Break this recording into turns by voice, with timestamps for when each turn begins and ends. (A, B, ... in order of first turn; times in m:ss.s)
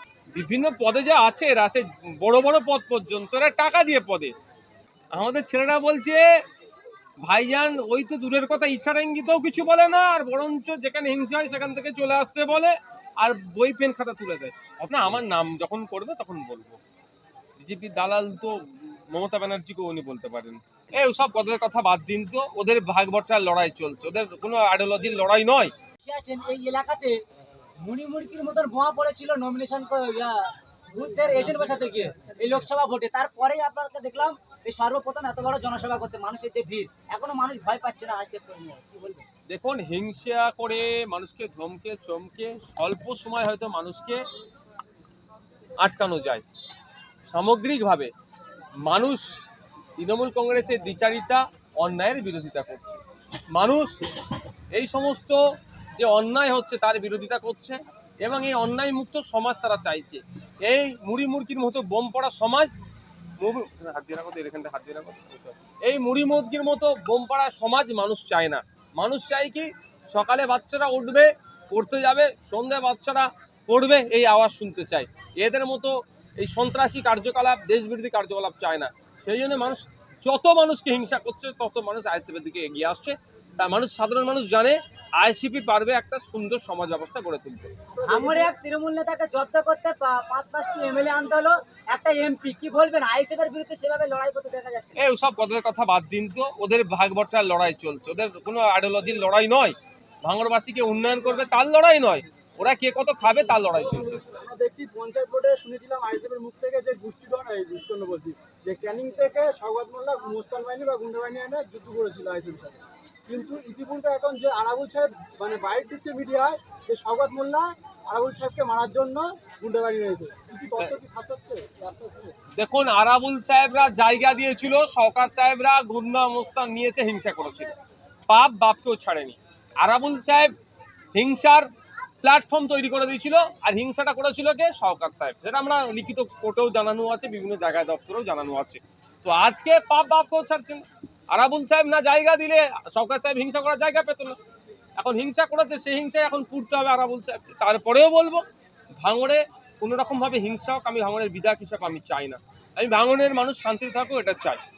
0:00.3-0:04.3 A
0:05.1-0:06.2 A
0:07.2-0:16.8 A
0:17.6-0:25.7 A
0:26.0-0:27.1 B
0:27.8-0:39.2 B
0:39.5-0:44.2 A
0:45.8-0:46.4 A
0:47.3-0:48.1 A
0:48.8-0:49.4 A
0:50.0-0:53.0 A
0:53.5-0:54.1 A
0:54.7-0:55.4 A
0:56.0-1:02.7 A
1:03.4-1:27.7 A
1:27.9-1:28.5 C
1:28.0-1:35.0 B
1:35.0-1:44.2 A
1:43.8-2:02.4 C
2:02.6-2:07.7 A
2:08.3-2:10.6 A
2:11.1-2:11.7 A
2:12.2-2:24.4 A
2:25.0-2:28.4 A
2:29.0-2:34.6 A